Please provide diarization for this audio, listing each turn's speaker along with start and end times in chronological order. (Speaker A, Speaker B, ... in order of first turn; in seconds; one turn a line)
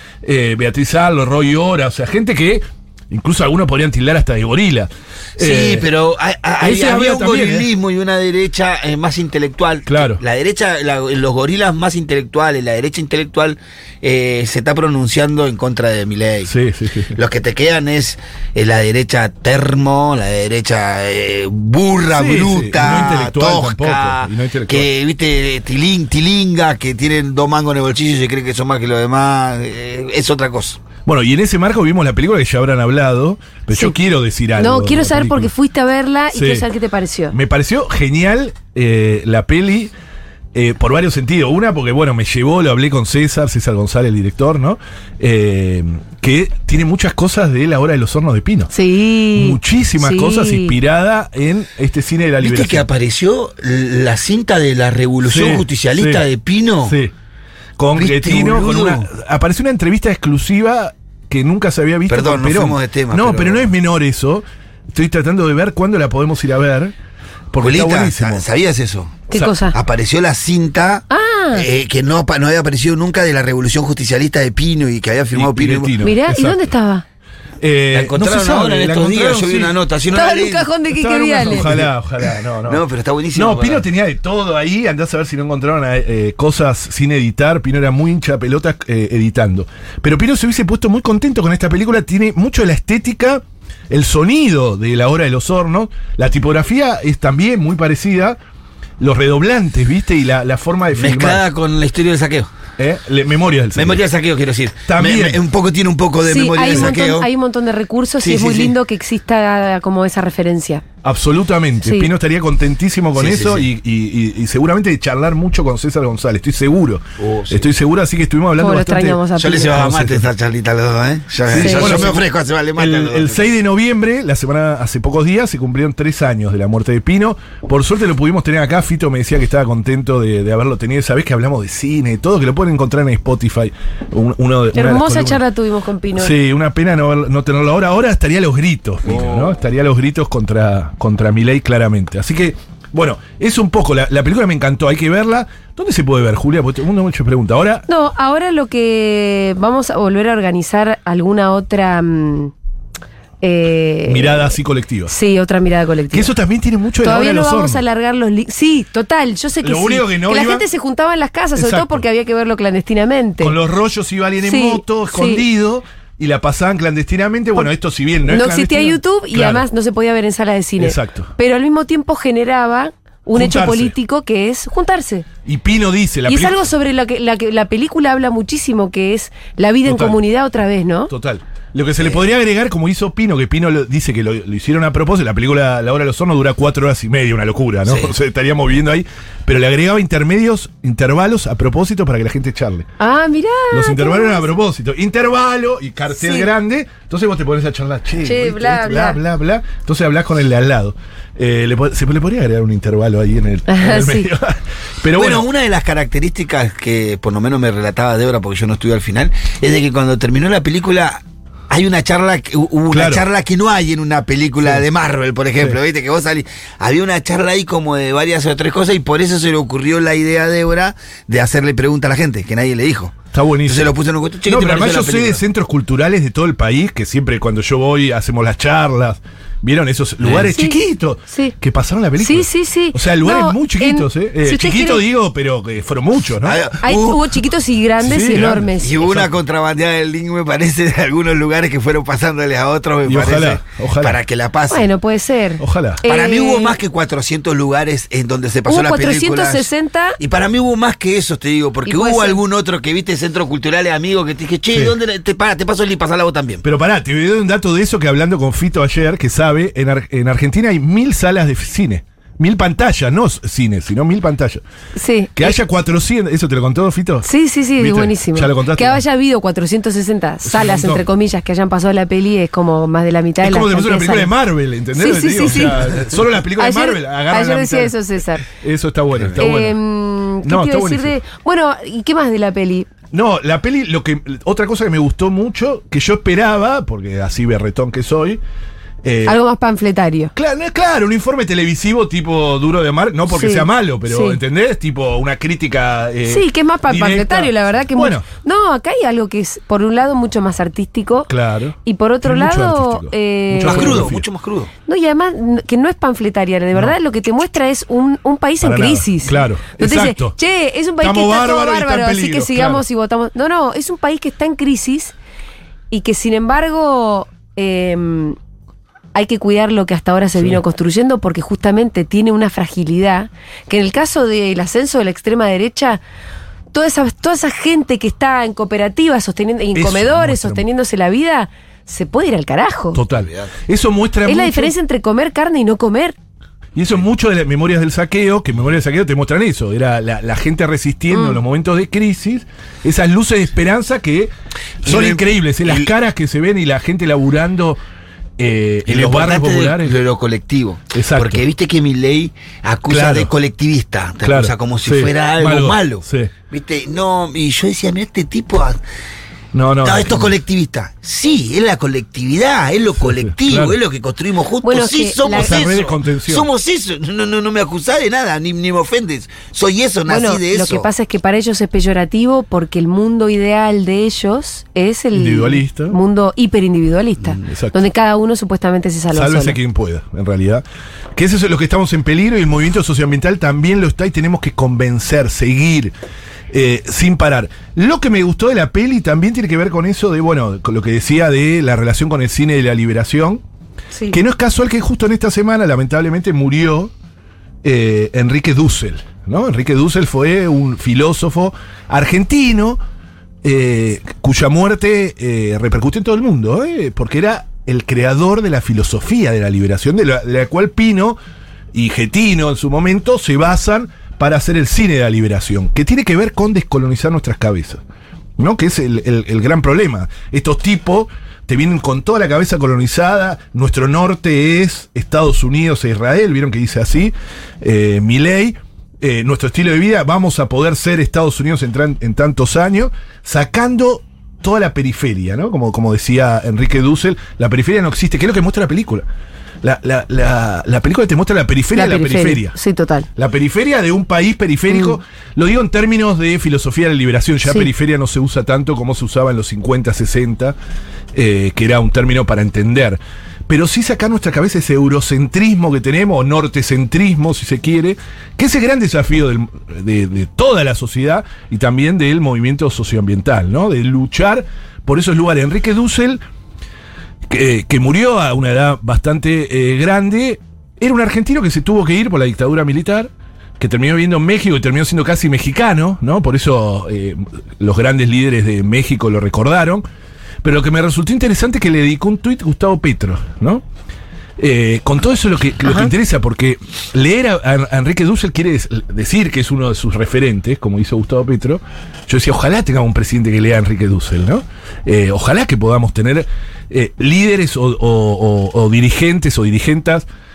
Speaker A: 0.2-5.8
Speaker B: 5.4-16.5
Speaker A: 6.6-7.7
Speaker A: 9.8-10.2
Speaker A: 16.4-17.2
Speaker B: 17.1-30.8
Speaker A: 22.1-24.9
Speaker A: 31.0-35.5
Speaker C: 34.6-37.4
Speaker A: 36.3-36.6
Speaker A: 37.3-39.9
Speaker A: 40.5-48.7
Speaker C: 48.7-50.7
Speaker A: 49.3-52.9
Speaker B: 52.4-57.0
Speaker A: 55.2-56.2
Speaker A: 56.8-57.1
Speaker A: 57.8-66.9
Speaker B: 57.9-59.1
Speaker B: 62.1-63.7
Speaker A: 67.5-68.4
Speaker B: 67.6-75.9
Speaker C: 69.3-69.7
Speaker C: 71.1-71.7
Speaker A: 75.3-76.7
Speaker C: 76.0-77.0
Speaker A: 77.6-79.7
Speaker B: 77.9-80.7
Speaker C: 80.1-81.7
Speaker A: 80.9-82.8
Speaker B: 81.5-81.9
Speaker B: 82.6-83.8
Speaker A: 83.3-98.4
Speaker A: 99.0-101.4
Speaker B: 101.0-102.5
Speaker A: 102.8-104.0
Speaker B: 103.8-107.3
Speaker A: 104.9-105.4
Speaker C: 106.2-110.8
Speaker B: 108.2-108.7
Speaker A: 111.0-120.3
Speaker C: 111.8-112.1
Speaker B: 113.1-113.7
Speaker B: 117.2-117.7
Speaker C: 118.6-119.8
Speaker B: 119.3-123.5
Speaker A: 121.5-135.4
Speaker C: 121.5-122.1
Speaker C: 134.7-136.3
Speaker A: 136.1-147.8
Speaker B: 139.1-139.5
Speaker C: 147.9-152.5
Speaker C: 153.4-156.3
Speaker A: 154.1-155.1
Speaker A: 156.1-157.8
Speaker C: 157.0-163.6
Speaker A: 159.6-160.6
Speaker A: 161.6-162.1
Speaker A: 163.4-169.6
Speaker C: 164.4-165.4
Speaker C: 168.2-175.2
Speaker A: 170.8-171.3
Speaker A: 173.3-173.9
Speaker A: 175.4-176.6
Speaker C: 176.2-181.1
Speaker A: 179.8-180.2
Speaker A: 181.1-192.8
Speaker B: 187.8-188.1
Speaker C: 193.0-194.5
Speaker A: 193.7-205.4
Speaker C: 196.1-196.5
Speaker C: 198.2-199.2
Speaker C: 203.7-204.3
Speaker B: 205.1-225.4
Speaker A: 212.9-213.2
Speaker A: 223.3-223.9
Speaker A: 224.4-236.6
Speaker B: 230.2-230.5
Speaker C: 230.5-231.5
Speaker C: 232.2-235.0
Speaker B: 236.4-237.4
Speaker C: 236.8-239.0
Speaker A: 238.0-239.3
Speaker B: 238.8-244.9
Speaker A: 243.0-244.2
Speaker C: 244.7-246.8
Speaker A: 245.6-246.0
Speaker B: 246.0-256.6
Speaker C: 248.7-250.2
Speaker C: 251.8-252.4
Speaker A: 254.7-255.0
Speaker A: 256.6-264.6
Speaker C: 264.9-265.6
Speaker A: 265.4-269.0
Speaker C: 267.2-274.3
Speaker A: 270.4-271.0
Speaker A: 273.4-278.0
Speaker C: 274.9-278.4
Speaker A: 278.5-279.8
Speaker B: 279.1-279.4
Speaker C: 279.4-282.9
Speaker A: 280.4-281.1
Speaker A: 283.1-288.4
Speaker A: 289.0-289.4
Speaker C: 289.2-290.3
Speaker A: 290.4-298.2
Speaker C: 293.3-294.4
Speaker C: 296.3-301.3
Speaker A: 301.3-304.2
Speaker C: 301.8-304.1
Speaker B: 303.6-304.7
Speaker C: 304.9-315.1
Speaker A: 308.6-310.4
Speaker A: 311.0-312.8
Speaker C: 315.9-318.4
Speaker C: 319.1-326.0
Speaker C: 326.7-333.0
Speaker A: 329.7-330.6
Speaker A: 332.9-334.7
Speaker B: 333.1-333.5
Speaker C: 334.2-336.1
Speaker A: 336.7-344.3
Speaker C: 341.1-341.4
Speaker A: 344.8-347.8
Speaker B: 344.8-345.9
Speaker A: 348.4-350.0
Speaker B: 348.9-358.8
Speaker A: 350.9-351.4
Speaker A: 352.9-353.3
Speaker A: 354.2-356.3
Speaker A: 359.5-360.3
Speaker B: 359.8-370.9
Speaker A: 363.2-363.8
Speaker C: 364.6-365.7
Speaker A: 365.3-366.5
Speaker C: 370.1-379.6
Speaker A: 375.1-375.9
Speaker A: 377.4-377.7
Speaker A: 379.1-380.6
Speaker A: 381.1-385.9
Speaker A: 386.5-393.4
Speaker C: 393.9-394.2
Speaker A: 394.1-396.9
Speaker A: 397.6-402.8
Speaker A: 403.4-411.2
Speaker A: 411.7-417.8
Speaker A: 418.4-439.0
Speaker A: 439.6-442.5
Speaker C: 441.7-443.1
Speaker A: 443.1-450.6
Speaker C: 444.7-445.0
Speaker C: 447.4-447.7
Speaker A: 451.1-466.2
Speaker A: 467.3-479.8
Speaker A: 480.4-483.6
Speaker A: 484.4-500.1
Speaker C: 485.6-485.9